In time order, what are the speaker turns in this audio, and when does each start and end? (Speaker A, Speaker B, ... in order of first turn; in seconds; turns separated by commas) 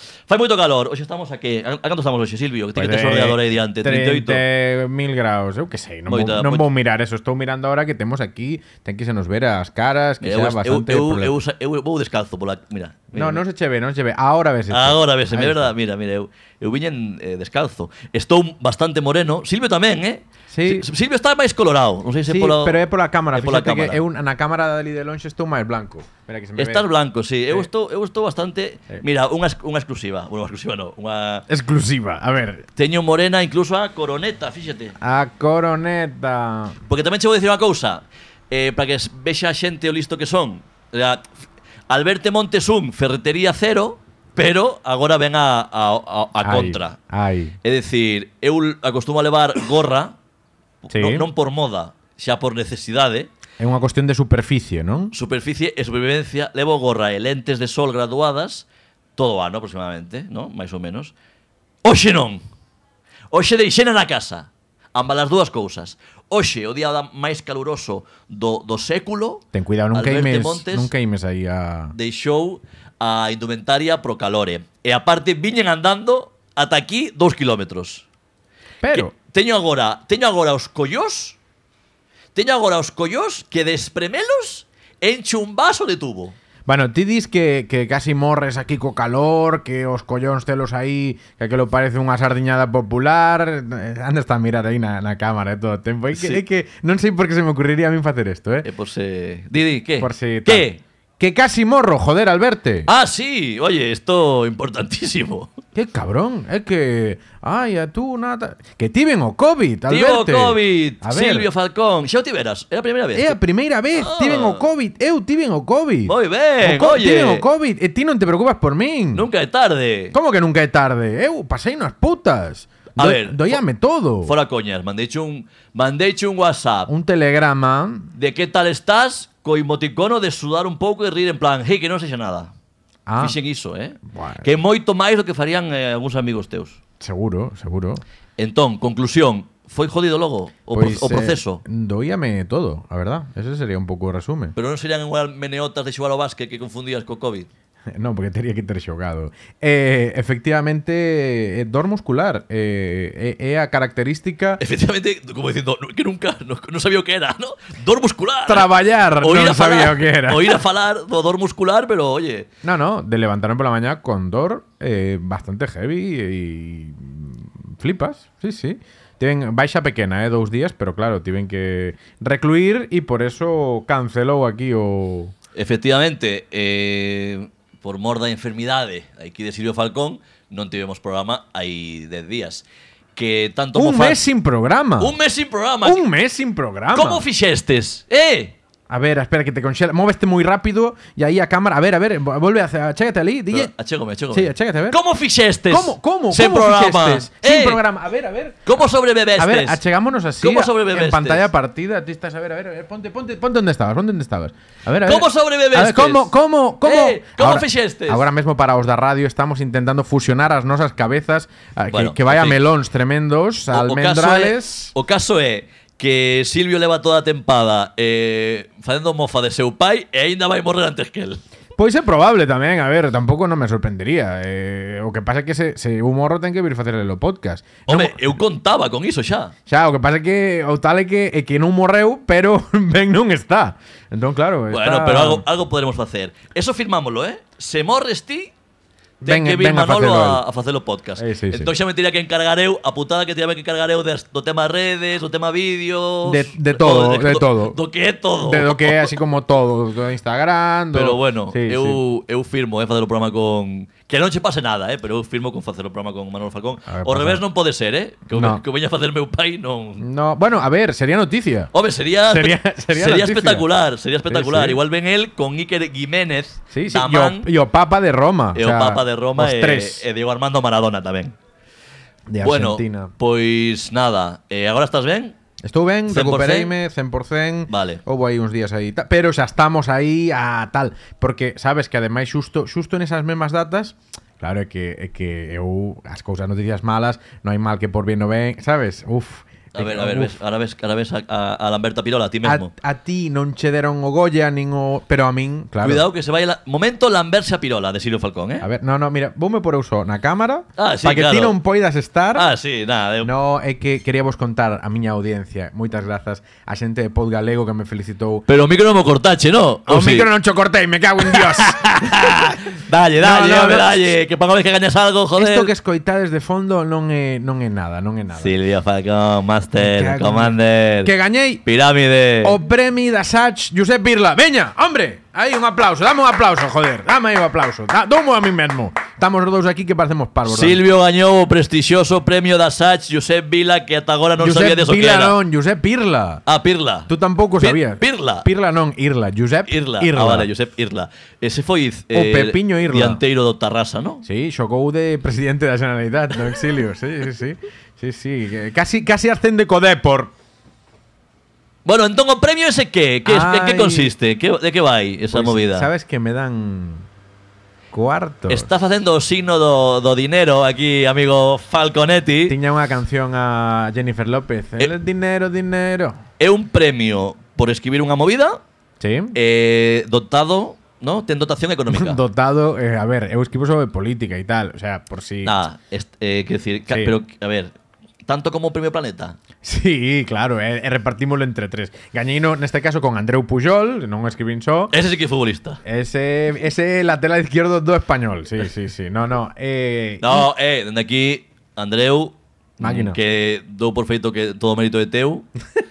Speaker A: 0.3-4.4, Speaker B: 2.8-11.3, Speaker A: 6.1-6.7, Speaker A: 10.2-13.4, Speaker B: 13.1-15.7, Speaker A: 14.7-22.8, Speaker B: 20.5-20.9, Speaker B: 22.3-26.9, Speaker A: 23.3-24.0, Speaker A: 26.6-31.4, Speaker B: 31.5-32.6, Speaker A: 32.8-34.9, Speaker B: 35.0-36.8, Speaker A: 36.9-41.2, Speaker A: 41.9-47.0, Speaker B: 46.4-47.5, Speaker A: 47.6-50.1, Speaker A: 50.8-53.3, Speaker B: 50.9-51.2, Speaker B: 53.6-55.1, Speaker A: 55.1-61.1, Speaker A: 61.8-62.4, Speaker A: 63.3-70.9, Speaker B: 69.5-71.9, Speaker A: 71.9-78.0, Speaker B: 78.8-79.1, Speaker A: 78.9-81.4, Speaker A: 82.3-86.3, Speaker B: 86.7-98.7, Speaker A: 96.1-96.4, Speaker A: 98.6-100.8, Speaker B: 100.0-102.9, Speaker A: 102.9-105.5, Speaker B: 105.7-111.5, Speaker A: 109.9-113.4, Speaker B: 113.1-119.2, Speaker A: 113.9-114.6, Speaker A: 116.1-117.5, Speaker A: 119.1-120.1, Speaker B: 120.1-124.3, Speaker A: 123.0-123.6, Speaker A: 124.2-126.9, Speaker B: 126.9-128.1, Speaker A: 128.1-132.5, Speaker B: 133.1-133.3, Speaker A: 133.2-136.8, Speaker B: 134.1-134.5, Speaker B: 137.0-138.0, Speaker A: 138.4-141.6, Speaker B: 140.7-144.5, Speaker A: 144.6-147.5, Speaker B: 147.9-154.6, Speaker A: 154.6-158.7, Speaker B: 158.5-160.6, Speaker A: 159.2-162.5, Speaker B: 162.6-175.3, Speaker A: 175.5-182.6, Speaker A: 183.2-184.2, Speaker B: 183.7-185.1, Speaker A: 185.0-186.0, Speaker B: 185.8-187.2, Speaker A: 186.9-188.5, Speaker B: 188.9-193.7, Speaker A: 193.5-197.8, Speaker B: 194.3-195.0, Speaker B: 195.7-198.6, Speaker A: 198.7-199.8, Speaker B: 199.4-214.9, Speaker A: 200.4-201.5, Speaker A: 205.0-208.3, Speaker A: 211.9-212.6, Speaker A: 213.7-221.4, Speaker B: 221.8-228.3, Speaker A: 227.9-229.5, Speaker B: 229.7-235.4, Speaker A: 234.7-238.5, Speaker B: 239.2-240.4, Speaker A: 239.2-249.2, Speaker B: 241.2-241.7, Speaker B: 246.2-247.8, Speaker B: 248.4-252.0, Speaker A: 250.9-260.0, Speaker B: 256.9-257.4, Speaker B: 258.3-258.6, Speaker B: 260.0-261.7, Speaker A: 261.7-267.5, Speaker B: 262.3-263.7, Speaker B: 264.3-264.8, Speaker B: 266.7-270.0, Speaker A: 268.5-271.4, Speaker B: 272.3-273.1, Speaker A: 272.4-275.4, Speaker B: 275.6-290.4, Speaker A: 276.1-276.7, Speaker A: 277.7-278.0, Speaker A: 289.7-292.7, Speaker B: 292.4-296.1, Speaker A: 295.8-298.7, Speaker B: 298.6-302.5, Speaker A: 300.8-301.6, Speaker A: 302.3-303.3, Speaker B: 303.2-308.4, Speaker A: 308.5-310.3, Speaker B: 309.9-312.6, Speaker A: 311.2-315.7, Speaker B: 313.2-314.0, Speaker B: 315.4-318.5, Speaker A: 318.4-321.1, Speaker B: 319.8-321.6, Speaker A: 321.6-322.6, Speaker B: 322.4-330.8, Speaker A: 330.4-335.4, Speaker B: 334.4-336.4, Speaker A: 336.4-338.4, Speaker B: 337.1-340.5, Speaker A: 339.7-344.2, Speaker B: 342.1-343.2, Speaker B: 344.2-350.3, Speaker A: 351.8-355.9, Speaker B: 353.2-354.1, Speaker B: 355.3-357.1, Speaker B: 357.9-358.7, Speaker A: 358.5-362.6, Speaker B: 362.5-366.2, Speaker A: 366.4-368.6, Speaker B: 369.0-369.4, Speaker A: 369.3-372.2, Speaker B: 371.9-375.6, Speaker A: 375.4-377.7, Speaker B: 376.9-377.1, Speaker A: 378.2-379.4, Speaker B: 379.6-384.9, Speaker A: 384.9-385.8, Speaker B: 385.8-390.4, Speaker A: 390.2-395.5, Speaker B: 392.8-393.2